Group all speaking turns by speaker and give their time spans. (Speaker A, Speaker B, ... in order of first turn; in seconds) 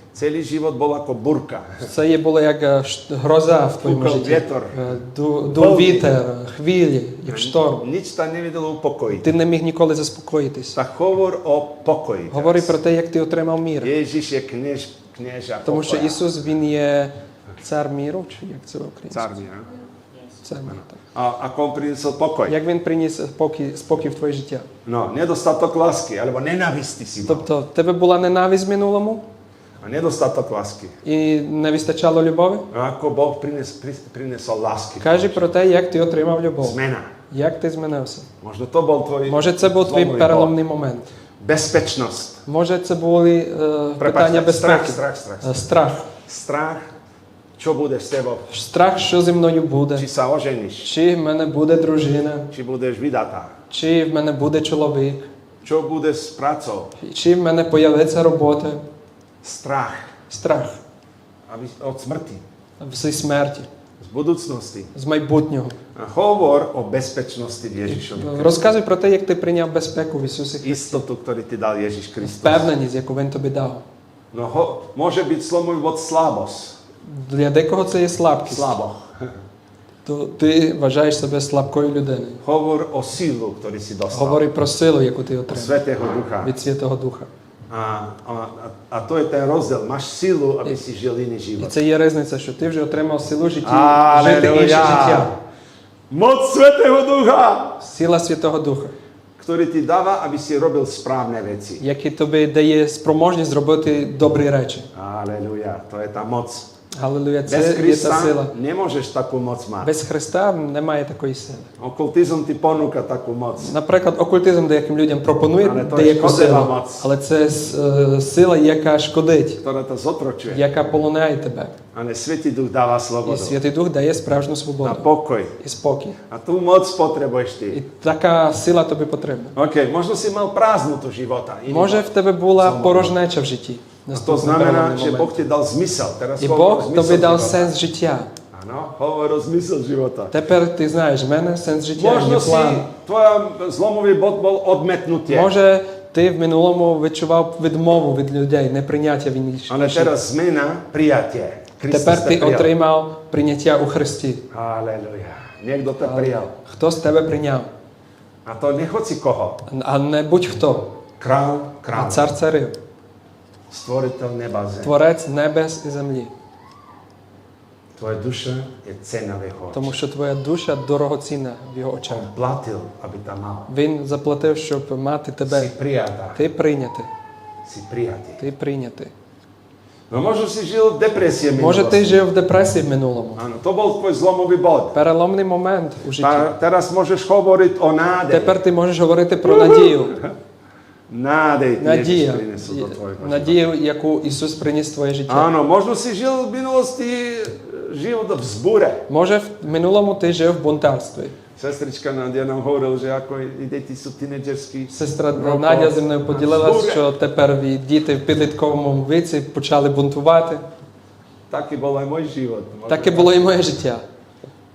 Speaker A: 0.1-1.9, 3.8-4.8, 5.5-6.1, 7.3-9.3, 10.7-12.7, 13.8-16.2, 19.1-19.7, 20.7-22.6, 24.9-27.5, 29.8-31.0, 32.7-35.5, 36.6-37.1, 38.4-40.6, 41.4-42.4, 44.0-45.6, 46.2-46.9, 47.6-48.5, 50.0-50.9, 52.5-53.5, 55.6-57.0, 59.4-60.1, 61.5-62.4, 64.0-64.9, 66.0-68.6, 70.6-72.7, 74.3-76.8, 78.5-79.3, 82.4-84.4, 85.5-86.5, 87.7-91.8, 93.6-95.3, 96.1-97.8, 99.4-101.8, 104.9-106.7, 107.5-109.9, 111.8-113.7, 115.6-117.1, 119.6-120.7, 121.9-123.5, 124.8-125.6, 126.3-127.8, 129.6-133.1, 134.1-137.7, 138.5-140.3, 142.0-145.5, 149.7-152.7, 154.5-156.5, 158.4-159.6, 161.2-162.3, 163.7-164.9, 168.0-170.0, 172.1-173.7, 175.5-176.4, 177.7-178.4, 180.1-182.2, 183.4-185.0, 186.2-188.6, 189.4-190.3, 191.1-193.6, 195.3-199.1, 201.6-207.1, 211.5-213.4
Speaker B: 1.8-7.8, 9.2-10.8, 12.3-13.9, 15.7-19.4, 20.4-21.0, 22.5-24.7, 27.3-29.2, 31.1-32.7, 35.0-36.8, 37.3-38.3, 39.3-41.1, 42.5-46.1, 48.5-50.0, 50.8-52.5, 53.7-55.3, 57.0-58.8, 60.3-60.8, 62.8-63.7, 65.0-65.8, 67.9-71.0, 72.2-73.8, 77.1-78.8, 80.0-82.4, 84.1-85.8, 86.4-87.3, 91.6-95.3, 97.8-98.9, 101.8-104.9, 106.9-108.5, 109.8-111.7, 113.6-119.6, 120.5-121.7, 123.2-126.2, 127.7-129.6, 131.7-135.3, 136.4-138.3, 140.3-142.9, 145.3-150.1, 151.9-154.4, 156.0-157.7, 159.7-160.9, 161.9-162.8, 164.8-166.3, 169.7-172.3, 173.7-175.7, 176.3-177.1, 178.4-179.1, 181.6-183.4, 184.9-186.5, 188.3-190.2, 191.8-195.5, 199.1-201.3, 204.9-210.7, 212.9-214.0